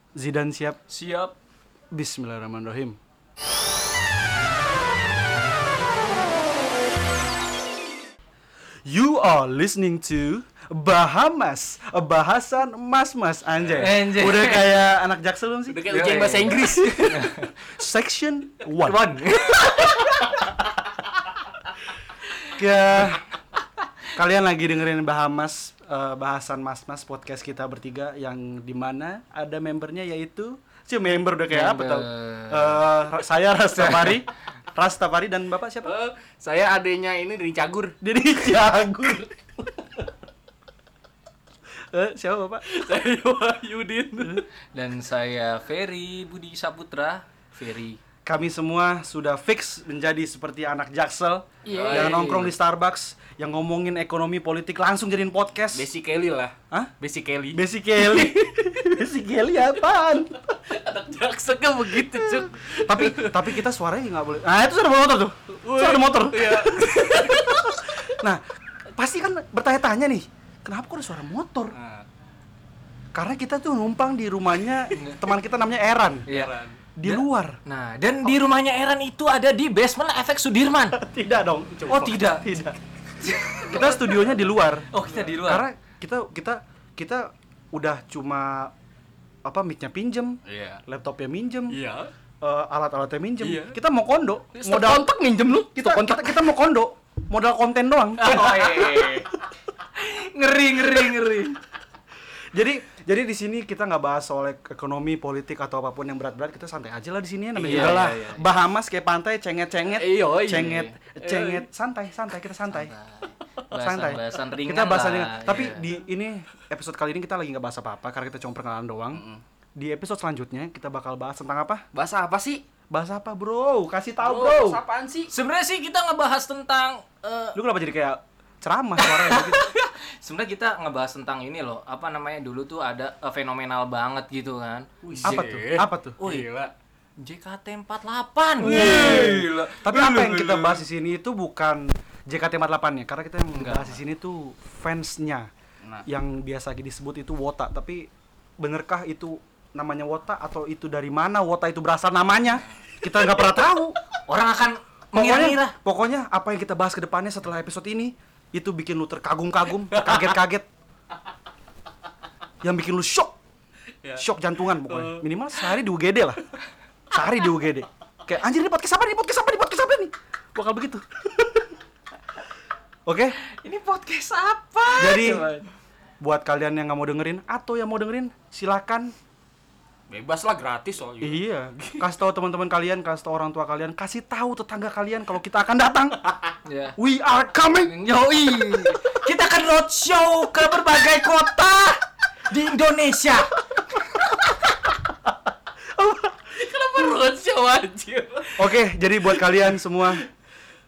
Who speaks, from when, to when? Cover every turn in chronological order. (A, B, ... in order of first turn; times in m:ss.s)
0:00.1-0:00.8 A
0:00.9-0:01.3 B
0:01.9-0:03.0 A
0:08.8-0:15.9 A
0:13.7-0:14.8 B
0:15.7-0:17.3 C
0:15.9-0:17.5 B
0:17.6-0:19.0 A
0:18.8-0:20.5 B
0:22.5-0:23.2 A
0:24.1-0:35.9 A
0:31.5-0:32.9 B
0:35.8-0:38.0 C
0:38.0-0:39.3 A
0:41.9-0:42.6 A
0:42.6-0:44.4 C
0:44.7-0:48.0 B
0:48.2-0:55.9 A
0:51.6-0:52.5 B
0:51.7-0:52.5 C
0:55.7-0:58.3 C
0:57.5-1:00.4 A
1:00.5-1:03.6 C
1:02.6-1:08.4 A
1:05.6-1:07.8 C
1:08.9-1:11.8 A
1:11.8-1:12.0 C
1:13.1-1:16.3 A
1:14.9-1:15.2 B
1:16.3-1:21.0 B
1:16.3-1:16.8 C
1:17.0-1:17.6 A
1:20.9-1:22.8 A
1:21.7-1:22.2 C
1:21.9-1:22.5 B
1:23.2-1:25.6 B
1:23.6-1:28.7 A
1:29.4-1:31.8 A
1:30.4-1:30.8 C
1:31.7-1:32.1 C
1:32.4-1:35.1 A
1:33.4-1:33.8 C
1:34.5-1:36.5 C
1:35.7-1:38.6 A
1:38.2-1:39.3 B
1:38.2-1:39.2 C
1:39.9-1:41.6 B
1:42.5-1:52.9 A
1:47.6-1:48.4 B
1:47.7-1:48.0 C
1:50.0-1:51.7 C
1:50.5-1:50.9 B
1:52.7-1:55.9 B
1:53.8-1:59.2 A
1:59.1-1:59.4 C
1:59.8-2:01.8 A
2:01.9-2:02.6 C
2:02.9-2:04.8 A
2:04.2-2:05.3 C
2:05.3-2:07.6 B
2:07.5-2:09.7 A
2:09.1-2:15.7 B
2:15.0-2:16.7 C
2:15.2-2:16.2 A
2:16.2-2:16.5 B
2:17.2-2:20.2 B
2:18.6-2:20.8 C
2:18.7-2:25.5 A
2:23.5-2:24.0 B
2:26.0-2:34.0 A
2:34.3-2:35.8 B
2:35.1-2:40.7 A
2:39.9-2:40.4 C
2:42.6-2:43.4 A
2:44.2-2:46.4 A
2:44.8-2:45.3 C
2:47.1-2:51.0 A
2:53.0-2:53.4 A
2:53.4-2:55.6 B
2:55.0-2:55.5 A
2:56.2-2:59.1 A
3:00.1-3:02.0 C
3:01.2-3:06.3 A
3:06.6-3:07.0 B
3:07.0-3:07.9 A
3:07.8-3:13.5 B
3:16.3-3:18.8 C
3:18.6-3:20.2 A